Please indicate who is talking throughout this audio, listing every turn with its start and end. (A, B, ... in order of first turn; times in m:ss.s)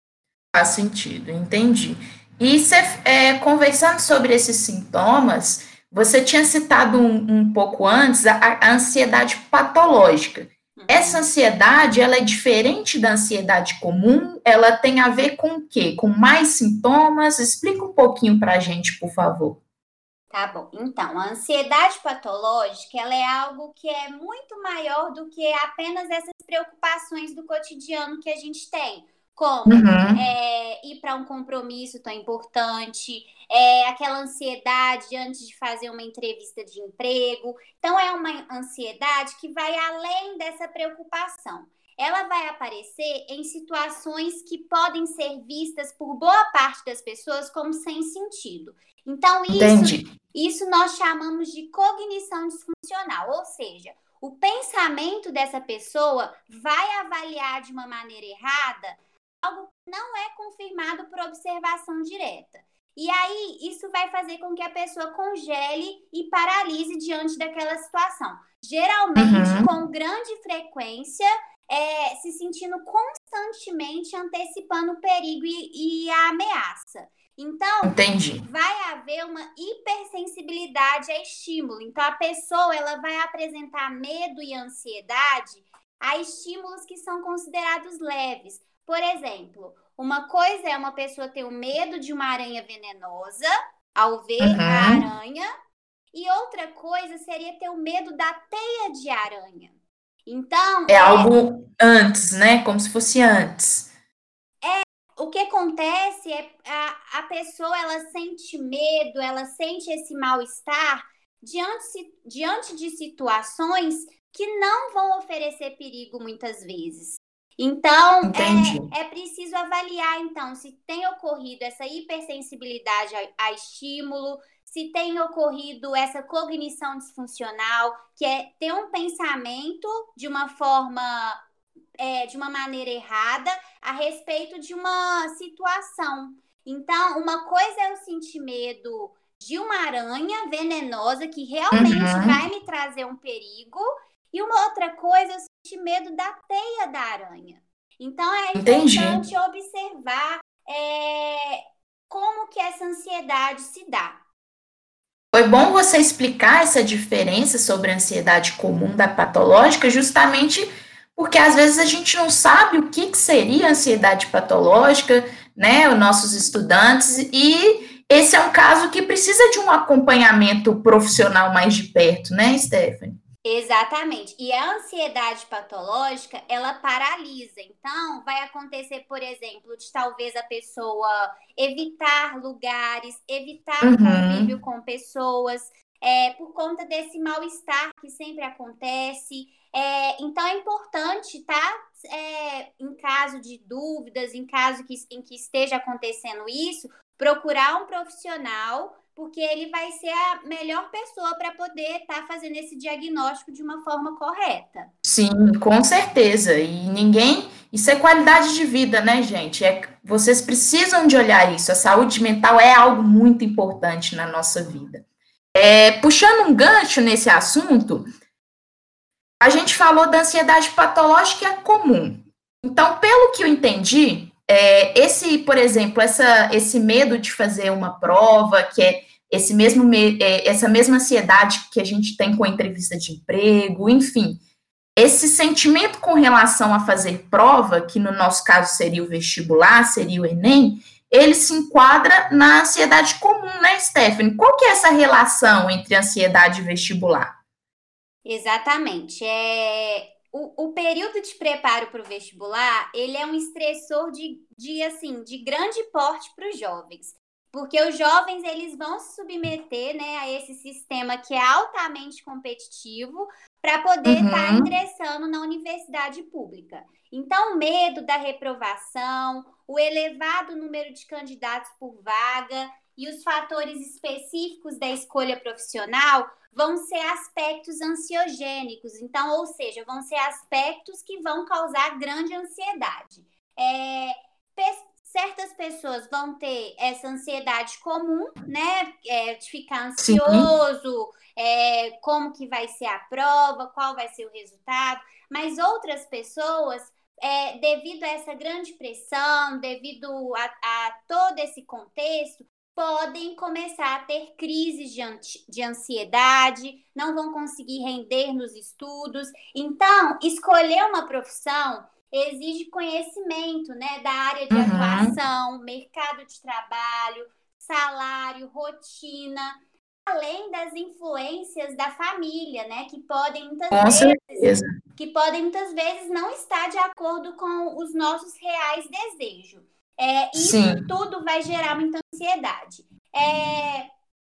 0:00.6-0:19.6 A
0:10.8-0:11.2 B
0:20.3-1:35.5 B
0:29.7-0:30.2 A
0:49.5-0:50.1 A
1:09.2-1:09.7 A
1:17.8-1:18.5 A
1:34.4-1:35.1 A
1:36.1-1:39.7 B
1:40.3-1:41.3 B
1:40.9-1:43.9 A
1:44.6-2:11.4 B
1:58.2-1:58.9 A
2:12.0-2:34.2 B
2:21.7-2:22.4 A
2:28.6-2:29.2 A
2:35.3-2:53.2 A
2:53.4-3:24.9 B
3:03.8-3:04.6 A
3:25.0-3:35.0 A
3:35.6-3:38.1 A
3:39.4-3:54.4 A
3:55.0-4:07.3 A
4:08.2-5:33.9 B
4:24.1-4:24.7 A
4:50.0-4:50.5 A
5:14.5-5:15.2 A
5:23.7-5:24.7 A
5:30.4-5:30.9 A